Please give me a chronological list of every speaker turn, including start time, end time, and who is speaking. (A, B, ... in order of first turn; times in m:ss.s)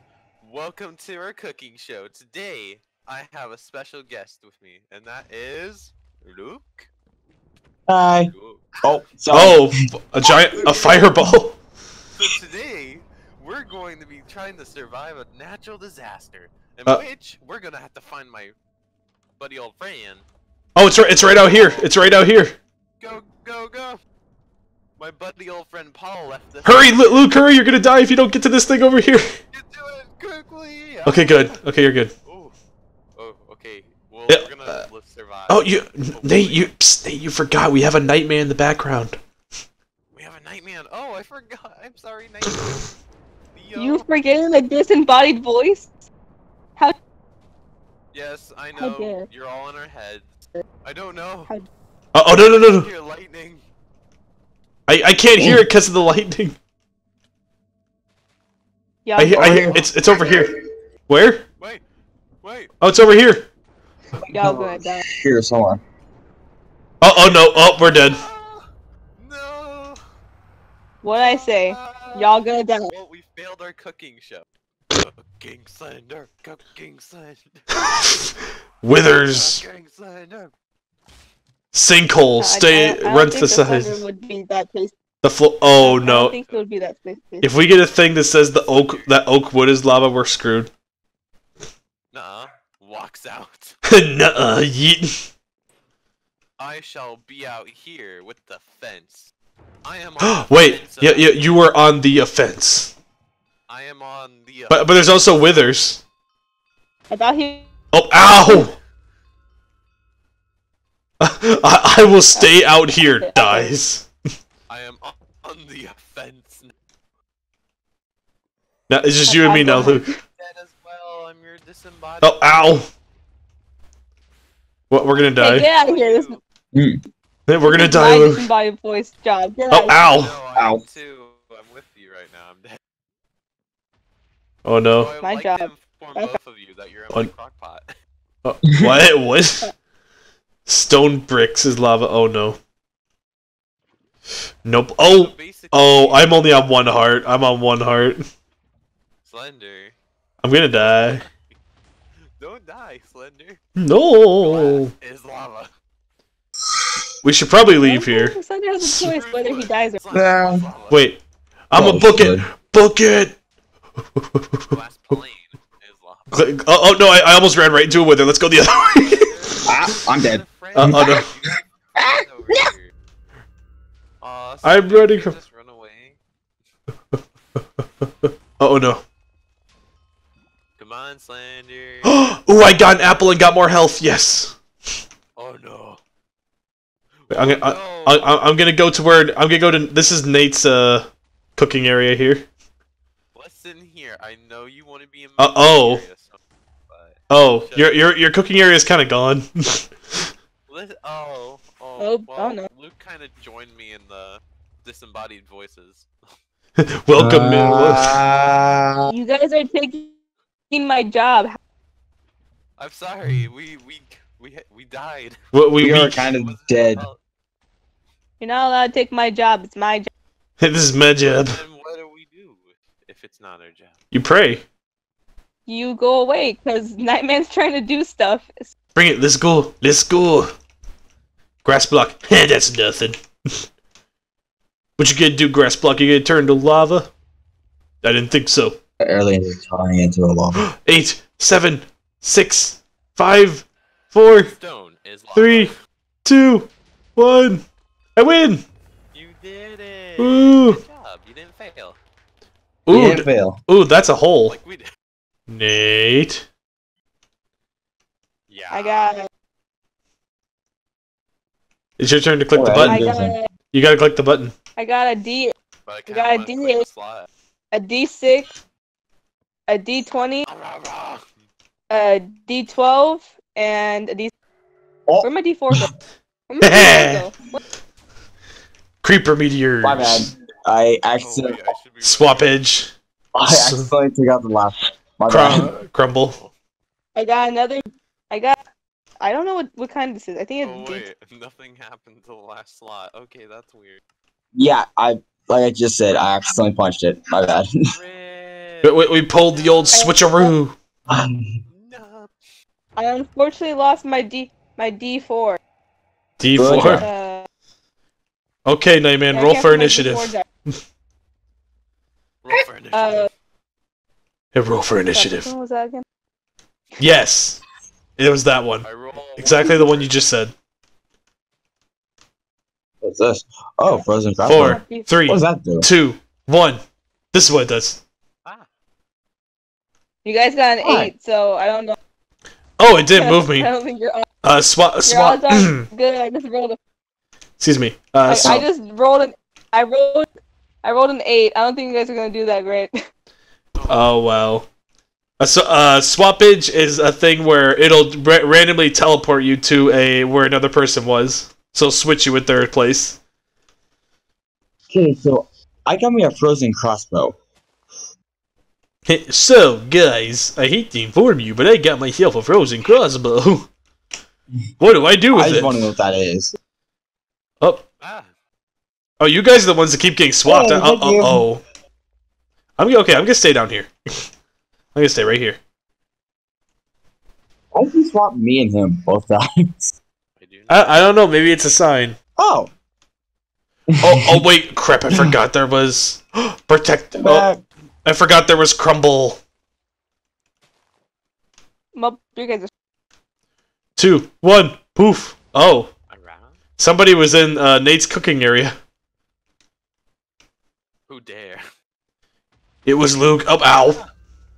0:00.4-0:06.9 A
0:07.9-0:08.3 B
0:08.3-0:08.8 A
0:08.8-0:09.7 B
0:09.3-0:11.6 C
0:10.6-0:10.9 A
0:10.6-0:11.1 B
0:12.2-0:18.5 A
0:19.4-0:20.3 A
0:20.8-0:22.6 C
0:21.1-0:21.9 A
0:23.0-0:24.0 A
0:25.0-0:27.4 A
0:26.6-0:29.4 C
0:29.5-0:31.6 A
0:31.1-0:32.1 C
0:32.3-0:32.6 A
0:33.2-0:36.7 A
0:34.3-0:34.8 C
0:35.5-0:39.2 C
0:40.1-0:42.9 A
0:43.6-0:44.1 A
0:43.8-0:45.9 D
0:48.1-0:51.5 A
0:48.8-0:49.2 D
0:52.1-0:52.9 C
0:52.3-0:53.6 A
0:54.9-0:56.6 C
0:55.4-0:55.6 B
0:59.0-0:59.8 D
0:59.2-1:00.5 C
0:59.3-1:00.5 B
1:01.1-1:01.4 C
1:02.4-1:02.7 A
1:02.8-1:03.5 C
1:04.2-1:05.8 B
1:04.3-1:05.0 D
1:07.0-1:08.2 C
1:07.8-1:10.0 A
1:11.0-1:12.9 D
1:11.2-1:18.2 A
1:18.8-1:19.6 C
1:19.2-1:20.5 A
1:21.7-1:24.0 C
1:22.4-1:24.9 D
1:25.2-1:26.4 C
1:25.8-1:27.5 D
1:26.1-1:26.6 A
1:27.4-1:30.7 C
1:28.7-1:29.1 A
1:32.1-1:33.8 A
1:33.9-1:35.2 C
1:36.6-1:39.3 A
1:39.8-1:41.6 A
1:40.2-1:42.9 C
1:43.7-1:45.0 A
1:44.7-1:46.0 C
1:47.1-1:47.7 D
1:47.9-1:48.8 C
1:48.4-1:48.7 D
1:51.2-1:54.1 C
1:52.4-1:53.8 D
1:54.7-1:56.7 A
1:58.9-2:00.1 C
1:59.3-2:00.2 D
1:59.5-2:02.8 A
2:02.2-2:02.9 C
2:04.9-2:05.7 C
2:05.1-2:06.4 A
2:05.4-2:06.4 D
2:06.7-2:07.0 B
2:07.5-2:08.5 C
2:07.6-2:10.0 D
2:09.7-2:10.4 C
2:10.0-2:12.8 A
2:10.6-2:10.8 B
2:14.6-2:15.1 C
2:14.9-2:17.9 A
2:15.2-2:16.4 D
2:18.4-2:19.7 C
2:20.7-2:22.6 C
2:24.6-2:28.2 C
2:25.1-2:26.7 A
2:29.2-2:30.0 A
2:30.4-2:31.2 C
2:30.7-2:31.5 A
2:32.4-2:33.6 A
2:33.8-2:34.9 C
2:34.4-2:35.7 A
2:37.2-2:39.1 C
2:37.8-2:40.0 D
2:39.1-2:41.1 A
2:40.1-2:40.6 B
2:40.9-2:41.2 C
2:41.7-2:43.4 C
2:41.8-2:42.4 B
2:44.2-2:44.4 C
2:44.7-2:46.3 A
2:46.3-2:49.2 C
2:48.8-2:52.9 A
2:49.6-2:51.2 B
2:50.8-2:51.3 C
2:52.0-2:52.7 B
2:54.2-2:56.2 A
2:54.6-2:55.4 C
2:58.0-2:59.0 C
3:00.8-3:02.2 A
3:02.0-3:04.6 C
3:05.4-3:06.0 A
3:07.2-3:08.3 A
3:07.3-3:12.5 C
3:13.4-3:18.0 A
3:15.4-3:16.0 C
3:17.3-3:19.9 C
3:20.7-3:26.1 A
3:22.0-3:22.7 D
3:26.8-3:28.2 C
3:27.2-3:29.1 B
3:29.1-3:30.2 D
3:30.7-3:31.6 D
3:32.8-3:35.4 A
3:35.5-3:36.3 C
3:35.8-3:37.1 B
3:36.3-3:37.2 A
3:38.4-3:40.1 D
3:40.6-3:41.6 C
3:41.2-3:44.0 A
3:44.1-3:44.6 C
3:45.7-3:48.7 D
3:49.0-3:50.5 C
3:51.6-3:53.6 C
3:55.0-3:57.1 C
3:58.0-3:58.8 C
3:59.0-4:00.6 B
4:00.6-4:04.5 C
4:04.4-4:05.8 A
4:05.3-4:05.7 C
4:06.2-4:07.6 C
4:08.2-4:08.6 C
4:09.1-4:12.0 A
4:10.2-4:10.8 C
4:12.9-4:14.6 C
4:12.9-4:13.6 B
4:14.4-4:14.9 A
4:15.5-4:16.5 C
4:18.5-4:19.2 A
4:18.7-4:19.3 D
4:22.0-4:24.5 C
4:22.5-4:23.3 B
4:22.8-4:23.5 D
4:24.8-4:25.5 D
4:25.9-4:27.3 A
4:26.1-4:26.9 D
4:27.7-4:28.5 D
4:29.7-4:30.5 D
4:30.5-4:31.3 A
4:31.9-4:34.3 D
4:35.2-4:35.9 D
4:36.5-4:37.6 D
4:36.6-4:37.3 C
4:39.0-4:40.3 C
4:39.8-4:41.6 B
4:41.2-4:42.6 A
4:42.0-4:42.9 C
4:43.3-4:45.7 B
4:43.4-4:43.9 C
4:45.3-4:46.4 C
4:46.2-4:46.5 A
4:47.2-4:48.6 D
4:49.2-4:51.1 D
4:50.6-4:54.0 A
4:54.5-4:57.7 B
4:57.9-5:00.1 A
4:58.8-5:00.8 C
4:59.9-5:00.6 D
5:01.1-5:01.5 B
5:01.7-5:02.3 A
5:03.0-5:05.6 D
5:06.4-5:07.1 C
5:06.6-5:07.1 B
5:06.8-5:07.5 D
5:08.7-5:10.8 C
5:09.3-5:10.4 D
5:12.4-5:13.3 A
5:12.9-5:13.3 D
5:14.5-5:15.5 C
5:15.1-5:16.0 D
5:17.0-5:17.6 C
5:18.2-5:18.9 C
5:18.8-5:20.2 A
5:19.4-5:20.5 C
5:23.0-5:25.9 B
5:23.9-5:25.1 D
5:24.4-5:26.8 C
5:27.3-5:28.0 C
5:30.2-5:32.0 D
5:30.8-5:31.1 B
5:32.8-5:33.7 C
5:33.1-5:34.3 D
5:34.4-5:35.9 C
5:35.1-5:36.8 D
5:37.6-5:38.7 C
5:38.3-5:40.3 D
5:40.8-5:43.0 D
5:43.8-5:44.1 A
5:43.9-5:44.7 C
5:45.4-5:53.2 C
5:54.9-5:57.4 B
5:59.1-6:03.7 C
6:04.8-6:05.9 C
6:05.3-6:06.5 B
6:08.0-6:08.3 A
6:09.2-6:11.6 C
6:10.4-6:11.4 B
6:12.8-6:14.3 C
6:15.0-6:15.6 C
6:17.7-6:20.0 B
6:20.4-6:21.1 A
6:20.7-6:22.2 C
6:22.4-6:22.7 B
6:24.0-6:24.4 B
6:24.0-6:27.5 C
6:27.1-6:27.6 B
6:28.0-6:29.4 C
6:31.9-6:32.7 D
6:34.0-6:35.9 C
6:36.1-6:36.6 A
6:36.8-6:38.8 C
6:41.1-6:41.6 A
6:42.9-6:44.0 C
6:43.8-6:44.1 A